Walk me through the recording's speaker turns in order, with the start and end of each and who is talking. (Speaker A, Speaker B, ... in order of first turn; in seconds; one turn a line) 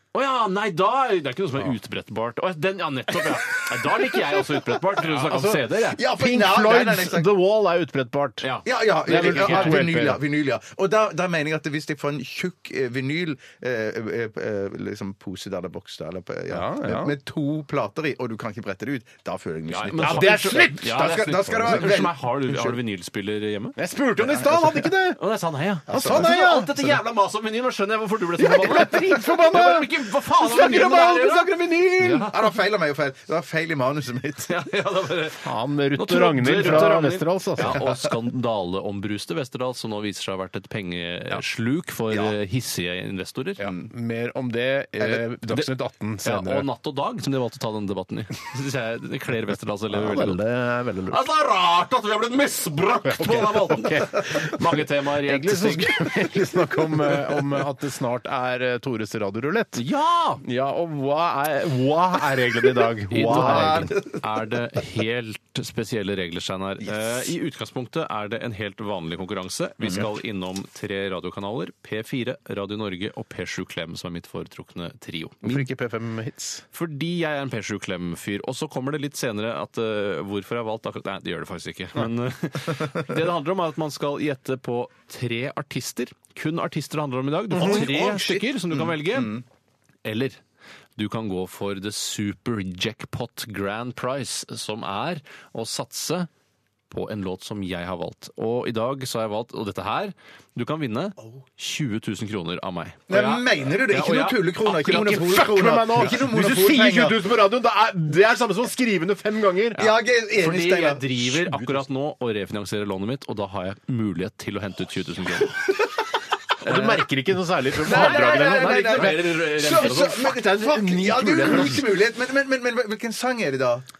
Speaker A: 0.1-6.0
Speaker B: 5.0-8.5
Speaker C: 5.9-7.3
Speaker A: 8.4-9.8
Speaker C: 8.6-22.8
Speaker B: 9.0-10.2
Speaker B: 16.5-17.1
Speaker A: 19.7-23.8
Speaker B: 20.0-21.9
Speaker B: 23.8-25.2
Speaker C: 24.2-24.7
Speaker A: 25.1-32.5
Speaker C: 25.9-26.4
Speaker B: 25.9-26.9
Speaker B: 28.4-32.3
Speaker C: 32.3-34.6
Speaker A: 34.5-43.7
Speaker B: 35.4-37.8
Speaker C: 42.1-42.4
Speaker C: 43.6-43.9
Speaker B: 43.7-46.7
Speaker A: 46.2-50.4
Speaker B: 49.9-51.2
Speaker A: 51.1-56.3
Speaker B: 53.0-59.8
Speaker A: 59.7-60.4
Speaker B: 60.4-63.9
Speaker A: 63.1-75.6
Speaker C: 63.3-64.2
Speaker B: 75.4-76.6
Speaker A: 76.7-89.3
Speaker B: 87.5-87.9
Speaker C: 87.5-89.4
Speaker A: 90.0-90.4
Speaker A: 91.0-96.3
Speaker A: 96.9-105.4
Speaker C: 103.1-107.2
Speaker B: 104.9-109.8
Speaker A: 109.7-115.6
Speaker C: 109.8-111.3
Speaker B: 111.5-111.8
Speaker B: 116.6-121.8
Speaker A: 116.6-117.0
Speaker A: 117.8-120.3
Speaker C: 117.8-123.8